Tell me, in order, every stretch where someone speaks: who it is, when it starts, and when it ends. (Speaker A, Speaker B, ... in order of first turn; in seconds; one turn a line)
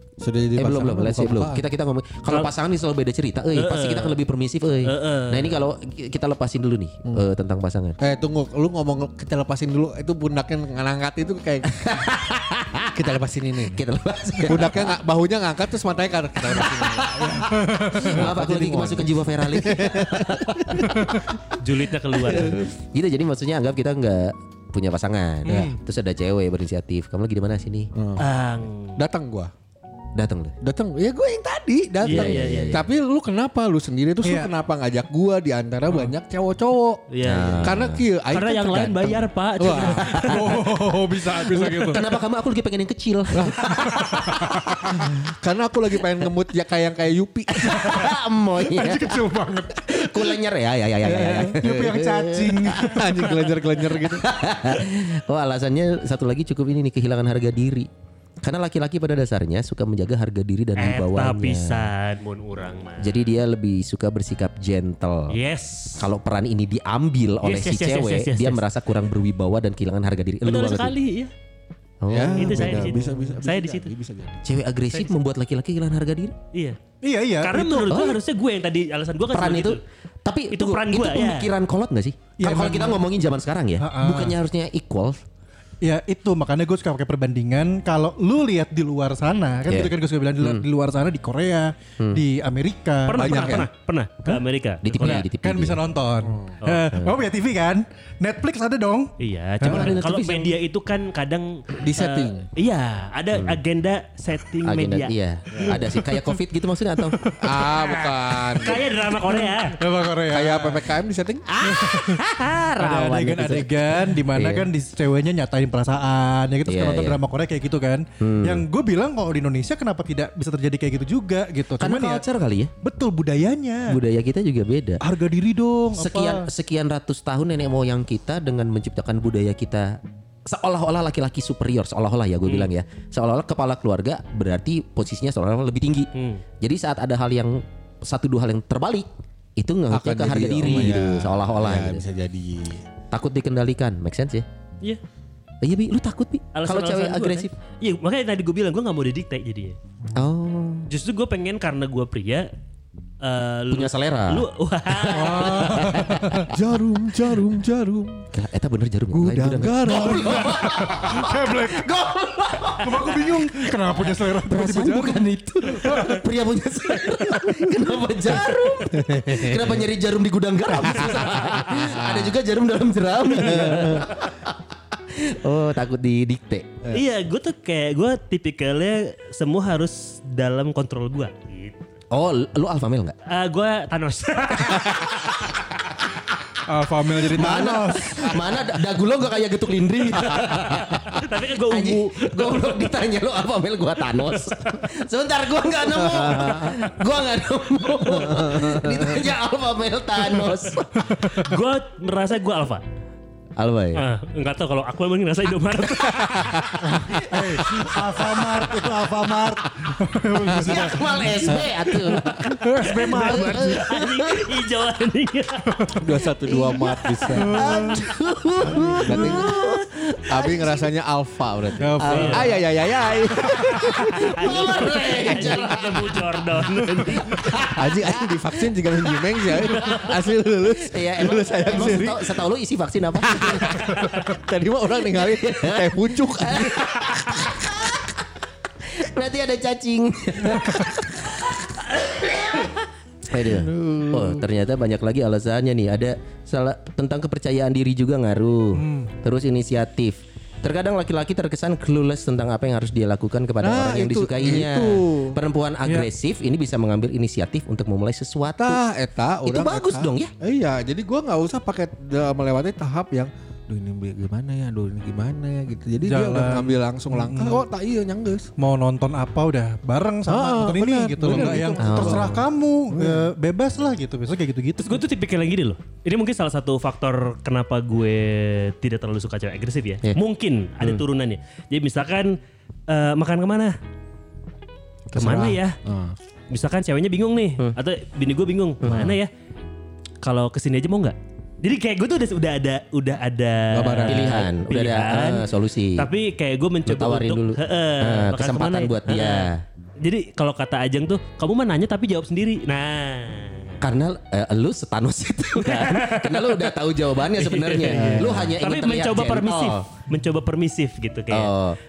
Speaker A: 0.2-1.6
Speaker B: 0.6-8.0
Speaker C: 3.5-4.2
Speaker C: 4.8-5.6
Speaker A: 8.0-11.8
Speaker B: 11.7-13.0
Speaker A: 12.9-13.8
Speaker B: 13.6-15.0
Speaker A: 14.4-21.2
Speaker B: 16.4-21.2
Speaker D: 17.5-18.2
Speaker D: 20.9-21.2
Speaker C: 21.6-22.6
Speaker B: 22.2-27.9
Speaker A: 25.4-25.7
Speaker D: 25.4-25.7
Speaker A: 27.9-28.3
Speaker C: 28.2-29.0
Speaker A: 29.0-29.5
Speaker B: 30.1-30.6
Speaker A: 30.6-37.0
Speaker C: 32.0-32.8
Speaker B: 32.0-32.9
Speaker D: 34.2-34.5
Speaker C: 37.1-37.7
Speaker B: 37.2-38.0
Speaker A: 37.6-40.3
Speaker C: 38.3-40.2
Speaker B: 40.0-40.6
Speaker D: 40.2-42.0
Speaker B: 41.4-45.0
Speaker A: 43.3-43.7
Speaker D: 43.6-45.1
Speaker A: 44.8-48.1
Speaker B: 47.6-53.5
Speaker D: 47.8-50.2
Speaker A: 51.0-51.6
Speaker D: 51.5-53.3
Speaker A: 52.7-54.3
Speaker B: 54.0-57.9
Speaker B: 58.4-61.9
Speaker C: 60.8-63.2
Speaker B: 63.0-65.3
Speaker C: 65.3-66.1
Speaker B: 66.0-70.9
Speaker C: 67.4-68.6
Speaker C: 70.4-71.3
Speaker B: 72.0-73.0
Speaker A: 72.1-74.4
Speaker C: 72.4-73.9
Speaker B: 74.4-76.3
Speaker D: 77.0-77.6
Speaker C: 77.4-79.8
Speaker B: 77.5-78.2
Speaker B: 79.3-85.2
Speaker C: 80.5-81.5
Speaker D: 82.4-83.0
Speaker D: 83.8-84.4
Speaker D: 85.8-93.7
Speaker B: 89.7-90.7
Speaker C: 93.0-95.2
Speaker A: 93.2-93.7
Speaker B: 94.8-95.8
Speaker D: 95.0-100.0
Speaker C: 96.6-96.9
Speaker B: 96.9-97.2
Speaker C: 99.2-105.1
Speaker B: 99.6-100.5
Speaker A: 101.8-102.5
Speaker B: 103.3-103.6
Speaker B: 104.6-107.2
Speaker A: 105.5-105.8
Speaker D: 105.6-106.4
Speaker D: 107.0-107.7
Speaker A: 107.4-108.8
Speaker D: 108.5-110.8
Speaker C: 108.6-109.8
Speaker A: 110.3-111.5
Speaker B: 111.5-114.7
Speaker D: 111.6-122.2
Speaker B: 116.7-117.2
Speaker B: 118.2-118.6
Speaker B: 121.8-122.7
Speaker D: 122.8-124.0
Speaker B: 123.9-125.0
Speaker D: 125.0-126.5
Speaker B: 125.9-136.1
Speaker C: 136.1-136.4
Speaker B: 136.6-142.0
Speaker A: 139.9-142.8
Speaker B: 143.1-144.4
Speaker B: 145.6-147.5
Speaker C: 146.5-149.8
Speaker B: 150.1-150.9
Speaker C: 150.9-152.5
Speaker C: 153.2-155.8
Speaker B: 153.7-156.5
Speaker D: 155.1-156.5
Speaker A: 156.5-158.3
Speaker B: 158.3-163.7
Speaker A: 159.1-161.1
Speaker D: 159.9-161.9
Speaker D: 162.8-166.2
Speaker B: 164.2-174.6
Speaker D: 167.0-167.7
Speaker A: 168.9-169.9
Speaker A: 170.8-172.3
Speaker A: 173.4-174.1
Speaker B: 175.1-176.8
Speaker C: 176.9-181.8
Speaker B: 182.1-183.1
Speaker C: 183.3-185.6
Speaker D: 186.6-188.3
Speaker B: 187.3-201.1
Speaker A: 187.4-188.4
Speaker C: 190.5-192.9
Speaker A: 196.0-196.9
Speaker A: 198.2-199.2
Speaker D: 201.0-201.5
Speaker C: 201.2-202.8
Speaker B: 203.6-204.0
Speaker C: 203.9-206.6
Speaker D: 206.8-211.5
Speaker B: 207.1-209.3
Speaker B: 210.5-214.6
Speaker A: 210.5-212.6
Speaker D: 212.3-214.0
Speaker C: 212.8-215.9
Speaker D: 215.7-216.2
Speaker A: 215.9-217.7
Speaker B: 216.5-220.8
Speaker D: 217.3-218.1
Speaker A: 218.6-219.6
Speaker D: 218.9-219.4
Speaker A: 220.3-225.6
Speaker D: 221.8-222.6
Speaker B: 222.0-222.4
Speaker C: 222.0-222.5
Speaker D: 223.4-224.1
Speaker B: 223.6-226.3
Speaker C: 224.1-227.3
Speaker B: 227.0-228.2
Speaker A: 227.6-232.4
Speaker B: 228.9-230.1
Speaker C: 229.8-230.1
Speaker B: 230.8-234.0
Speaker A: 233.2-237.7
Speaker C: 233.9-234.3
Speaker B: 235.1-238.2
Speaker B: 238.8-258.8
Speaker A: 243.4-244.4
Speaker D: 248.7-249.1
Speaker A: 253.6-255.4
Speaker A: 258.6-268.5
Speaker B: 259.4-260.3
Speaker D: 266.1-267.6
Speaker D: 268.6-275.0
Speaker A: 270.3-273.3
Speaker B: 271.4-272.4
Speaker C: 274.8-282.4
Speaker C: 282.9-283.7
Speaker A: 285.1-286.1
Speaker C: 285.1-285.8
Speaker C: 286.5-289.3
Speaker B: 288.8-289.2
Speaker C: 290.2-299.5
Speaker A: 293.7-294.4
Speaker B: 294.1-296.1
Speaker B: 296.9-299.6
Speaker C: 300.0-303.8
Speaker B: 303.8-309.9
Speaker C: 305.6-306.7
Speaker C: 307.3-311.5
Speaker A: 307.9-308.5
Speaker B: 311.3-311.8